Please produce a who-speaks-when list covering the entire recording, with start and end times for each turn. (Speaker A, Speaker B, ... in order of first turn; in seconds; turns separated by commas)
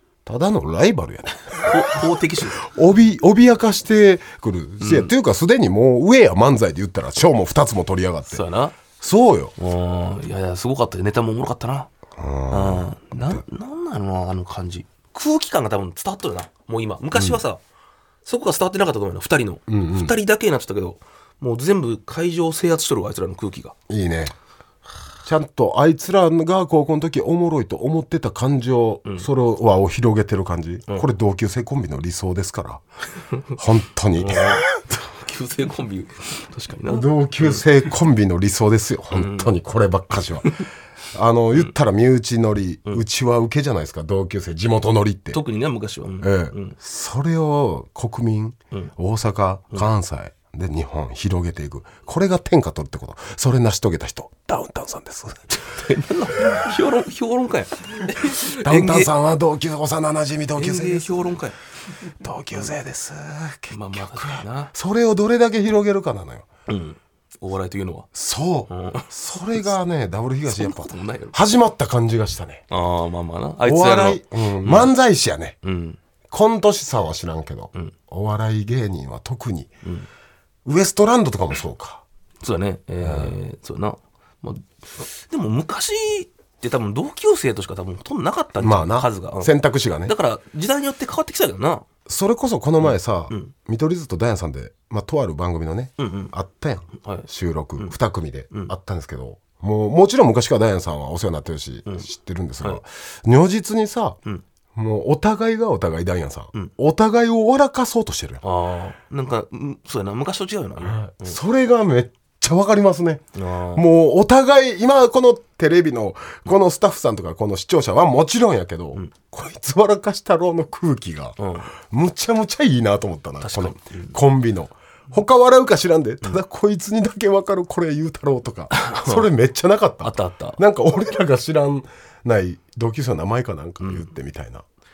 Speaker A: 0.3-2.0, Speaker B: 1.6-2.6, Speaker A: 2.6-8.4, Speaker B: 4.8-5.1, Speaker B: 8.3-8.8, Speaker A: 9.0-9.5, Speaker B: 9.6-11.9, Speaker A: 12.2-13.4, Speaker B: 12.5-17.6, Speaker B: 18.2-23.7, Speaker A: 19.7-20.1, Speaker A: 23.9-24.3, Speaker A: 25.2-32.8, Speaker A: 33.6-34.6, Speaker B: 34.2-37.6, Speaker A: 36.9-40.6, Speaker B: 39.1-39.5, Speaker A: 41.1-45.4, Speaker B: 45.3-46.8, Speaker A: 46.2-55.7, Speaker B: 55.5-59.1, Speaker A: 58.2-61.4, Speaker B: 60.6-61.6, Speaker A: 62.0-66.5, Speaker B: 63.7-64.7, Speaker B: 66.7-68.1, Speaker A: 68.1-72.7, Speaker B: 68.7-69.1, Speaker B: 70.5-71.4, Speaker B: 72.7-74.9, Speaker A: 73.6-75.6, Speaker B: 75.6-76.0, Speaker A: 76.3-79.7, Speaker A: 80.7-82.0, Speaker B: 82.4-89.5, Speaker A: 83.0-83.3, Speaker A: 88.6-90.1, Speaker B: 90.0-91.9, Speaker A: 92.1-104.2, Speaker B: 92.8-93.5, Speaker B: 96.0-96.3, Speaker B: 97.0-97.3, Speaker A: 104.8-108.4, Speaker B: 108.4-111.4, Speaker A: 110.8-121.4, Speaker B: 113.3-113.8, Speaker B: 121.4-121.7, Speaker A: 121.9-134.6, Speaker B: 123.4-124.2, Speaker B: 128.7-129.3, Speaker B: 130.0-130.6, Speaker B: 133.8-134.1